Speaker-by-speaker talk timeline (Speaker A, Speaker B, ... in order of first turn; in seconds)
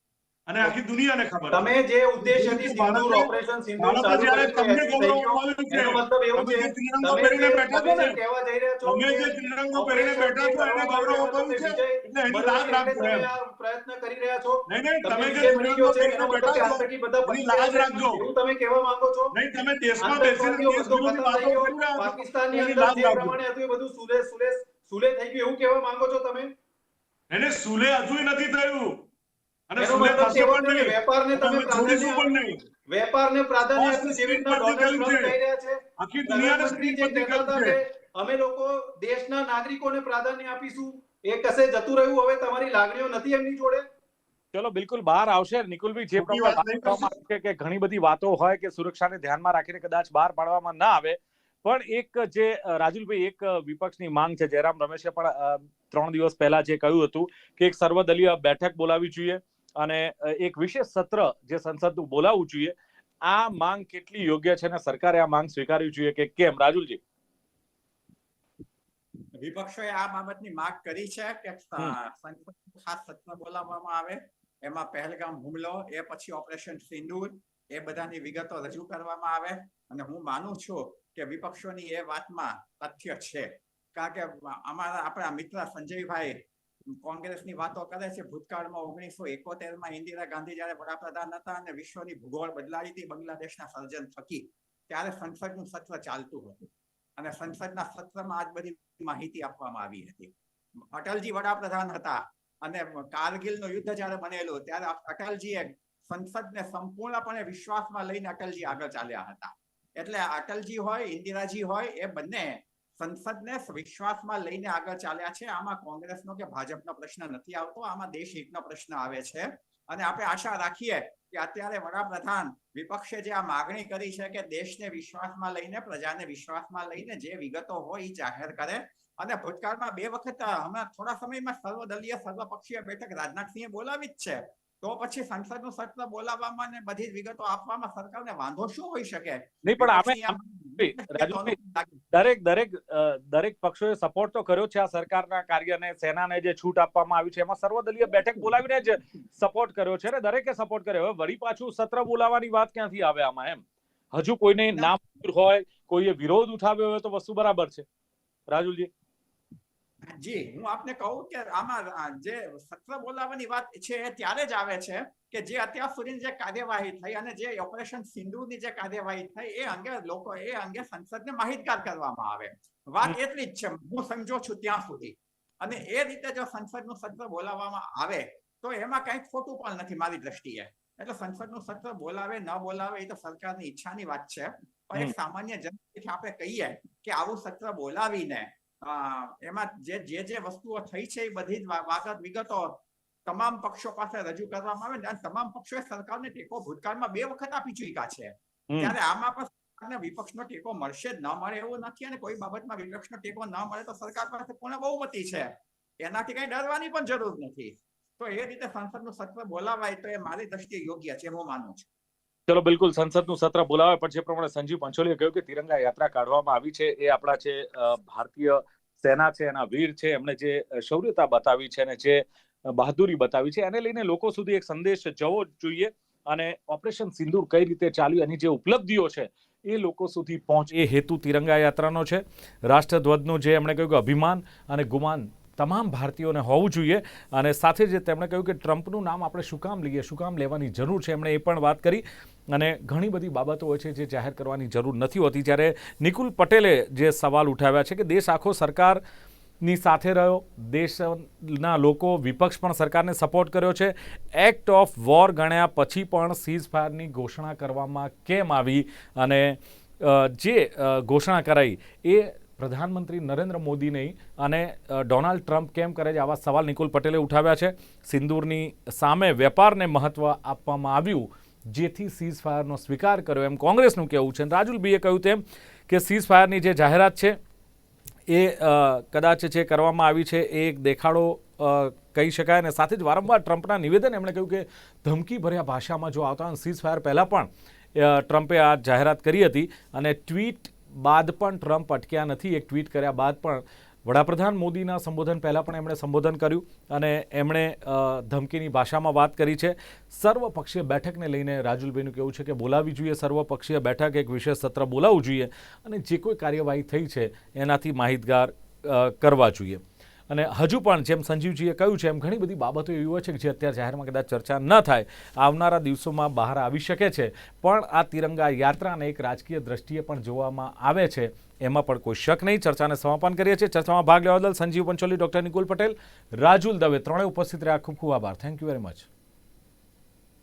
Speaker A: 0.5-8.2, 8.8-13.3, 14.7-18.3, 19.3-23.4, 27.3-29.1, 29.7-32.6, 33.8-35.4, 36.0-37.8, 46.1-47.1
Speaker B: 1.5-19.4, 20.0-26.5, 29.8-32.3, 32.9-43.8
Speaker C: 44.5-62.7, 63.2-67.0, 139.7-141.5, 142.1-157.8, 158.5-158.9, 198.7-198.9, 212.5-249.0, 249.6-277.4, 278.3-329.1
Speaker D: 69.4-86.4, 87.0-100.3, 100.9-142.0, 160.1-205.5, 206.0-211.9